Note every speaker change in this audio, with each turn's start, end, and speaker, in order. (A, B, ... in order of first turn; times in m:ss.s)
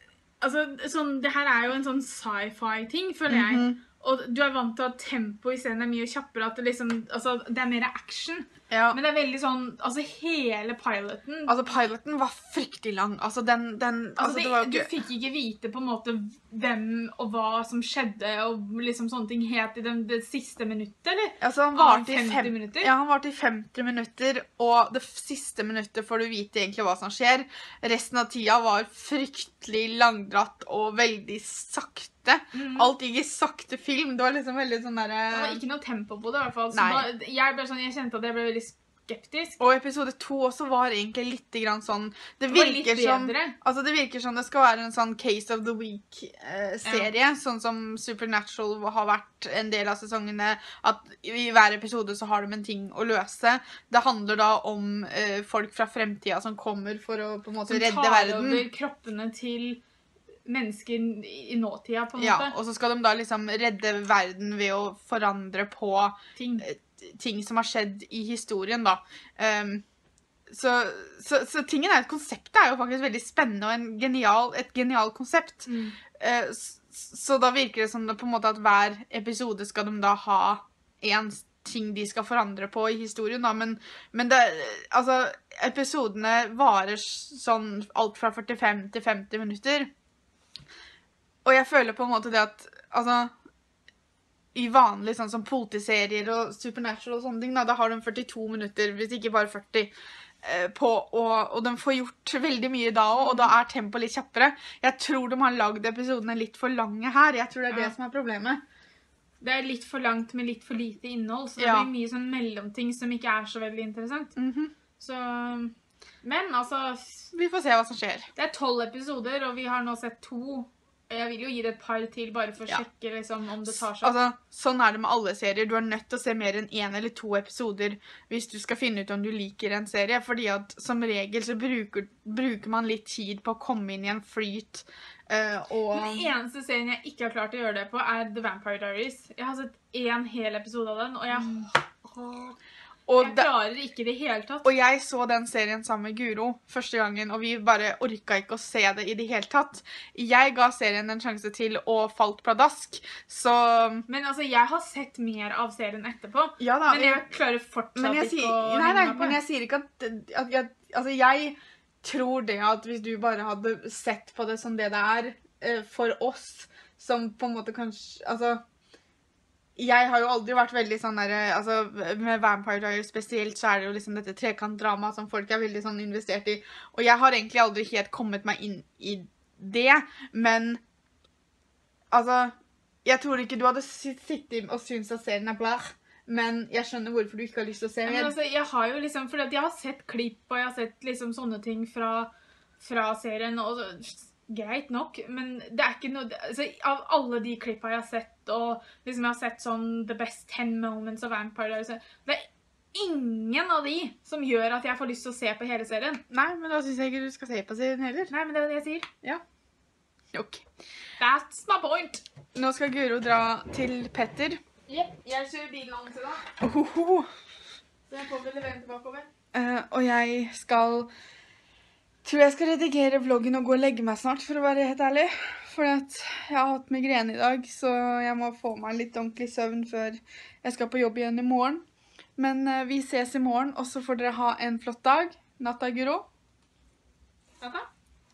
0:00.4-0:11.6 A
0:03.3-0:03.8 B
0:08.7-0:09.0 B
0:11.5-0:14.9 B
0:14.2-0:22.9 A
0:21.4-0:35.6 B
0:32.5-0:32.9 A
0:35.3-0:39.6 A
0:36.7-0:37.1 B
0:39.6-0:58.7 B
0:42.5-0:43.6 A
0:46.8-0:47.1 A
0:57.7-0:59.8 A
1:00.5-1:02.6 A
1:02.2-1:09.8 B
1:06.4-1:06.6 A
1:10.5-1:29.9 B
1:15.7-1:16.0 A
1:31.4-1:33.3 B
1:34.6-1:39.9 B
1:40.4-1:48.6 B
1:43.2-1:43.5 A
1:49.4-1:54.3 A
1:51.6-1:51.9 B
1:54.4-1:54.8 B
1:55.0-1:57.3 A
1:57.3-1:58.3 B
1:58.4-2:04.2 A
2:03.7-2:16.3 B
2:15.9-2:22.6 A
2:23.1-2:23.5 B
2:23.2-2:24.7 A
2:24.6-2:34.1 B
2:34.1-2:39.4 A
2:36.6-2:37.2 B
2:38.0-2:48.6 B
2:49.8-3:00.8 B
3:02.1-3:02.5 B
3:03.0-3:08.4 B
3:08.0-3:26.2 A
3:26.3-3:28.3 B
3:28.3-3:29.1 A
3:30.3-3:30.6 B
3:31.2-3:32.2 A
3:32.6-3:34.6 B
3:34.9-3:36.5 A
3:36.6-3:37.3 B
3:38.1-3:39.3 A
3:39.5-3:41.1 B
3:42.2-3:51.8 B
3:52.4-3:56.3 B
3:57.6-3:57.9 A